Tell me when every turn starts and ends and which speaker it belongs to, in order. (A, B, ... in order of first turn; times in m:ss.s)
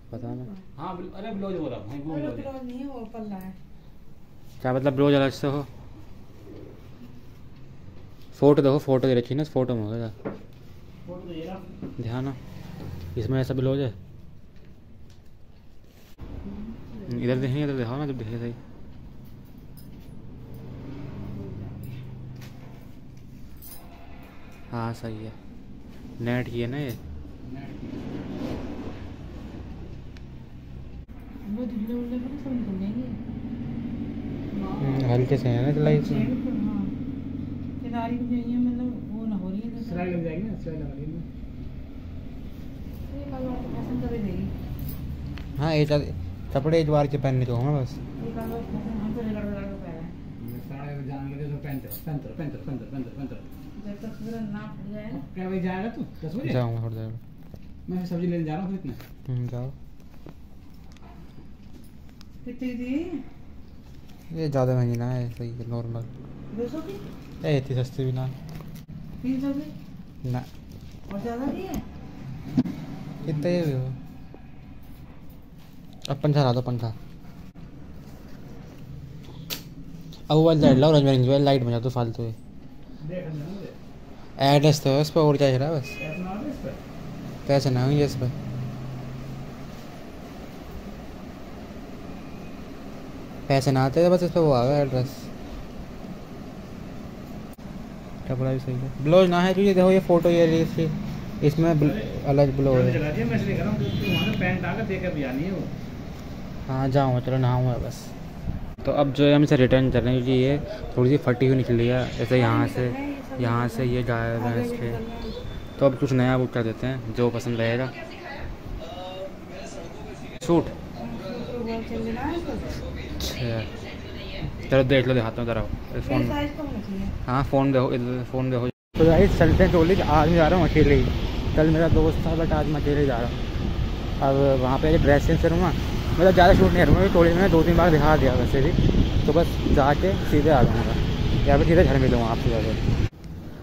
0:00.1-0:00.5 A
0:00.1-0:00.6 B
0:00.8-0:02.5 C
0:02.1-0:03.6 B
0:04.6-0:05.7 A
0:08.4-0:10.2 A
0:11.0-0:11.6 C
0:12.0-0:12.4 A
0:13.2-0:14.0 A
0:16.4-0:17.5 B
0:17.0-0:18.6 A
0:21.3-0:21.9 B
0:24.7-0:25.4 A
0:26.2-0:27.0 A
0:27.4-0:28.1 C
0:31.4-0:33.2 B
0:34.5-0:35.3 B
0:34.8-0:36.3 A
0:35.8-0:36.9 B
0:37.8-0:40.2 B
0:39.7-0:41.3 C
0:43.1-0:44.5 B
0:45.6-0:48.0 A
0:48.2-0:50.1 B
0:50.4-0:53.5 C
0:53.8-0:55.3 B
0:55.1-0:56.6 C
0:56.4-0:57.2 A
0:57.9-0:59.0 C
0:59.3-0:59.8 A
1:02.4-1:03.2 B
1:04.3-1:06.1 A
1:06.5-1:07.0 B
1:07.4-1:08.4 A
1:09.2-1:09.7 B
1:10.2-1:10.5 A
1:11.1-1:11.8 B
1:13.2-1:14.0 A
1:16.0-1:17.0 A
1:20.3-1:22.4 A
1:23.0-1:23.8 C
1:24.4-1:26.0 A
1:26.0-1:26.8 C
1:27.5-1:28.4 A
1:33.5-1:35.3 A
1:38.3-1:43.4 A
1:41.8-1:45.7 C
1:46.7-1:48.1 A
1:48.8-1:55.0 A
1:52.3-1:55.4 B
1:55.8-1:58.0 A
2:00.4-2:00.8 A
2:01.0-2:02.8 B
2:03.2-2:03.7 A
2:04.5-2:06.4 A
2:06.0-2:07.2 B
2:07.2-2:13.4 A
2:14.2-2:22.8 A